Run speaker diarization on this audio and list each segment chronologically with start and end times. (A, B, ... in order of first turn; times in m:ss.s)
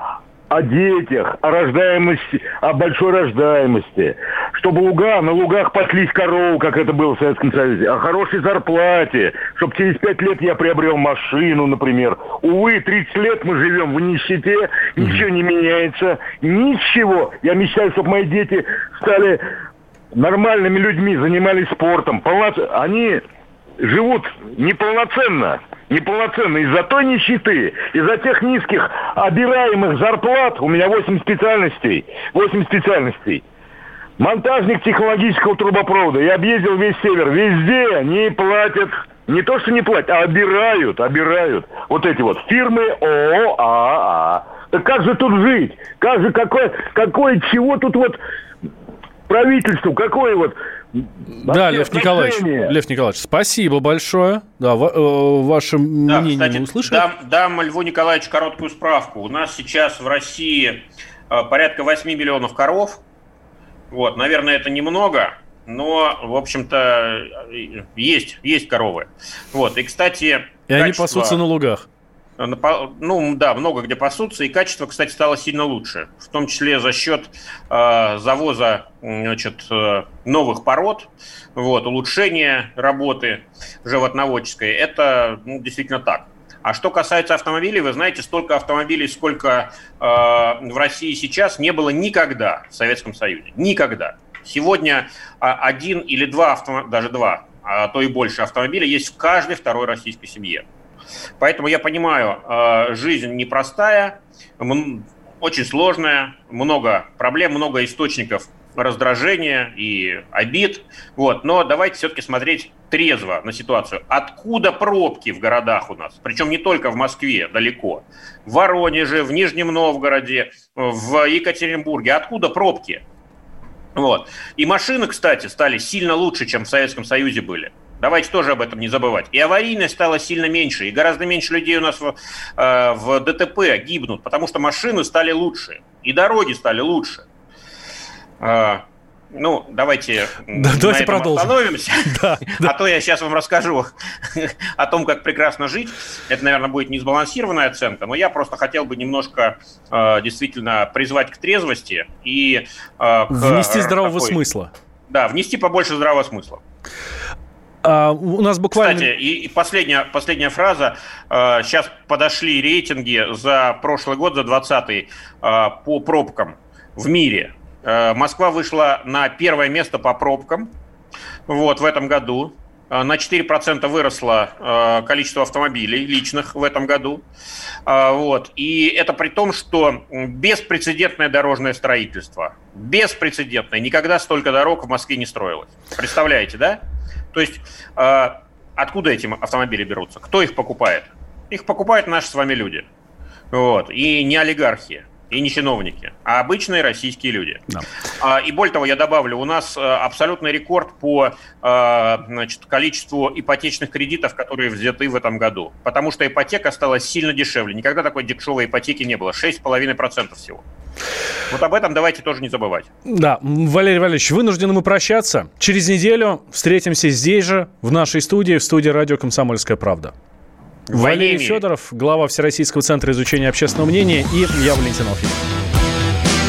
0:00.5-0:19.4 A
0:20.1-0:23.2 A
0:23.8-0:33.4 A
0:34.2-0:48.2 A
0:49.3-0:52.7 A
0:51.4-0:57.0 B
0:56.1-1:03.0 C
1:03.9-1:11.4 C
1:10.7-1:11.9 B
1:12.4-1:40.6 C
1:41.4-2:03.0 C
2:04.0-2:17.2 C
2:18.4-2:34.4 C
2:20.5-2:22.8 B
2:33.3-2:34.7 B
2:35.1-2:36.6 C
2:37.8-2:39.1 B
2:38.7-2:50.7 C
2:51.5-2:57.2 C
2:57.9-3:06.8 C
3:07.3-3:12.9 C
3:13.5-3:17.6 C
3:18.2-3:30.6 C
3:31.5-3:32.9 C
3:33.0-3:40.1 B
3:40.9-3:41.6 C
3:40.9-3:45.4 B